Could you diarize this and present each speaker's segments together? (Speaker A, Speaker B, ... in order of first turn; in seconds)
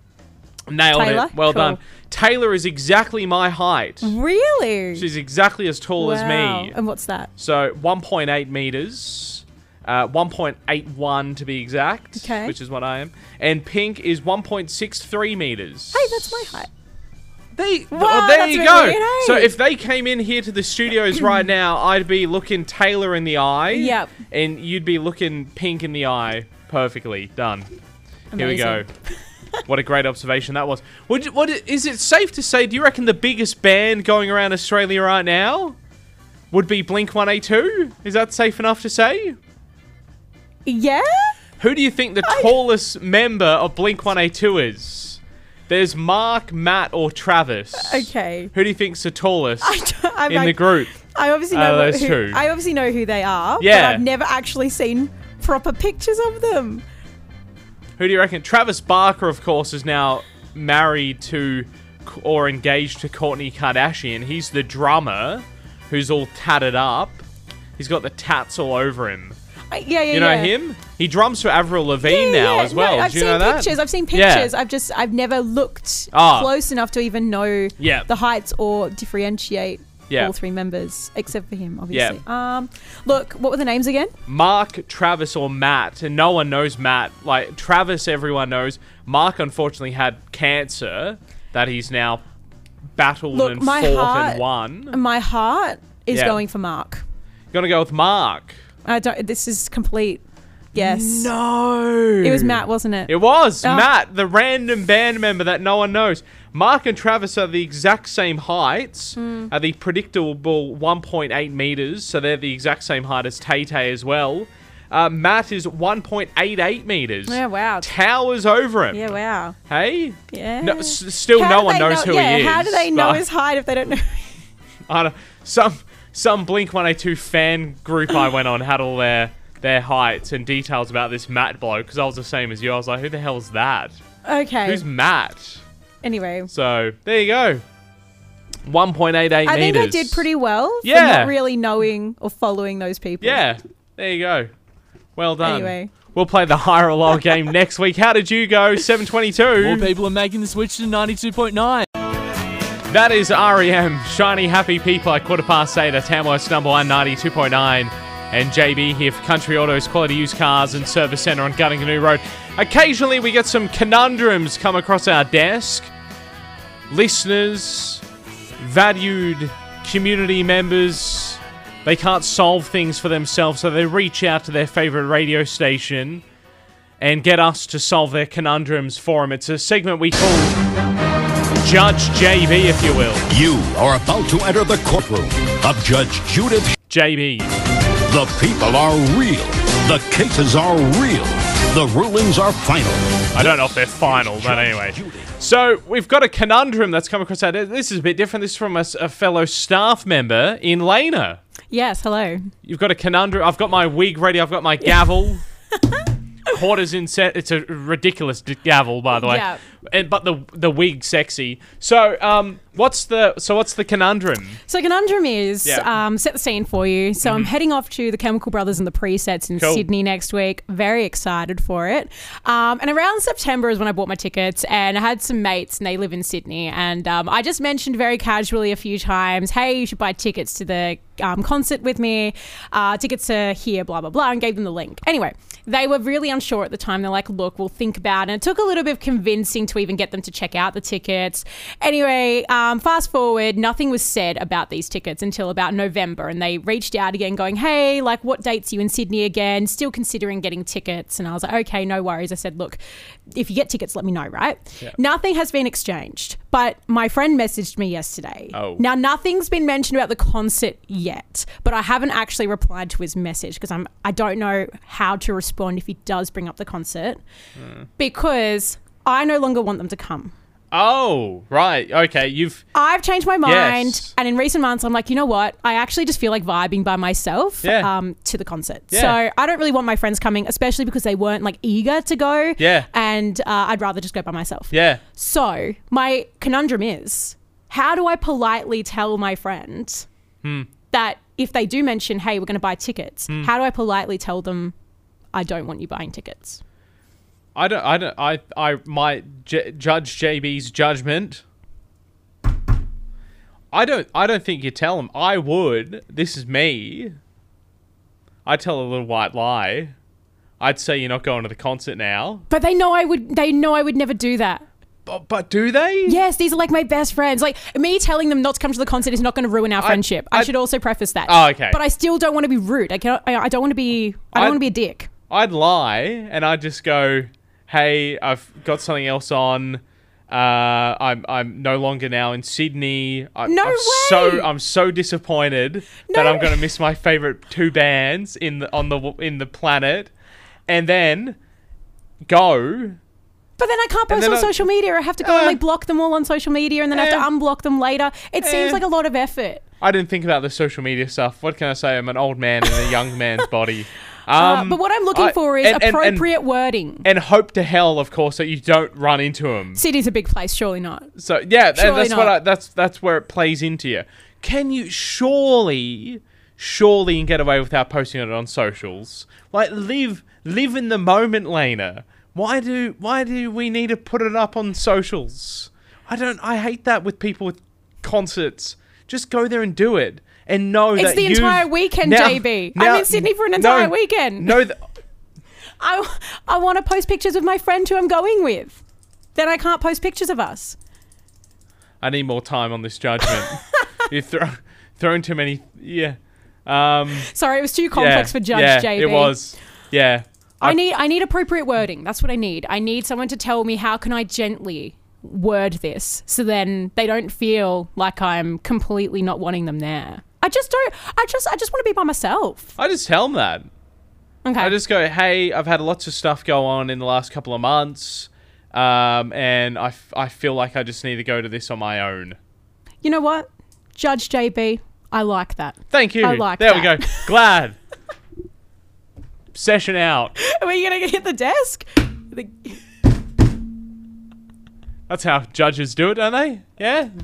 Speaker A: 0.7-4.2, 5.0-6.7, 7.4-16.6, 17.5-27.7, 28.4-28.9, 29.6-35.8, 36.5-39.4, 41.6-50.9, 51.5-52.4, 53.6-54.0, 58.0-67.2, 67.8-69.4, 70.1-74.5, 76.1-76.5, 77.8-78.1, 81.9-82.2, 84.2-92.2, 93.0-95.0, 96.1-96.4, 97.5-98.6, 100.7-119.1, 119.7-123.2, 124.9-134.0, 134.6-135.6, 136.5-137.6, 138.7-140.2, 140.8-141.3, 143.2-144.5, 145.2-149.9, 152.9-165.9, 166.9-168.0, 168.6-176.2, 177.0-180.6, 181.6-183.3, 186.9-187.5, 193.3-201.4, 202.6-205.4, 206.4-214.6, 217.2-217.5, 219.6-219.9, 258.5-258.8, 267.6-267.8, 270.7-272.6, 273.4-274.1, 277.6-277.9, 278.9-279.2, 282.6-282.9, 284.7-285.0, 290.4-290.7, 297.5-301.4, 303.7-307.1, 308.4-309.9, 310.6-312.4, 315.1-316.2, 319.8-320.5, 321.2-321.8, 324.3-324.6, 325.3-340.1, 340.7-341.4, 342.2-343.0, 344.1-344.7, 345.2-345.6, 346.9-347.2, 348.4-348.8, 349.8-356.3, 357.0-359.8, 361.1-384.8, 392.0-397.3, 397.9-400.8, 412.8-413.7, 414.6-422.4, 425.9-427.8, 429.5-430.3, 435.1-437.1
Speaker B: 0.9-1.8, 4.0-5.0, 6.0-7.3, 12.2-12.5, 15.9-16.7, 17.9-19.5, 23.7-24.1, 28.3-28.9, 40.6-41.4, 42.2-42.6, 47.8-48.5, 49.6-56.8, 69.7-70.5, 72.0-84.1, 93.3-97.0, 98.8-100.2, 100.7-101.3, 102.2-103.9, 109.2-109.5, 117.3-117.9, 118.9-119.5, 120.3-124.4, 134.2-134.8, 136.0-136.5, 139.4-143.4, 145.4-145.9, 201.7-202.4, 204.8-205.1, 205.8-206.0, 209.2-209.6, 214.7-252.8, 253.3-267.2, 268.0-270.3, 272.7-290.1, 290.9-294.7, 295.3-296.6, 312.5-314.6, 316.1-325.1, 333.4-334.5, 336.1-336.6, 343.6-349.6, 354.3-357.0, 359.7-361.1, 361.7-362.4, 380.9-384.6, 385.8-388.8, 389.3-390.8, 393.3-393.6, 397.2-399.4, 400.6-412.7, 414.4-414.8, 423.0-427.4, 430.4-432.8
Speaker C: 149.6-151.9
Speaker D: 183.3-186.7, 188.1-195.2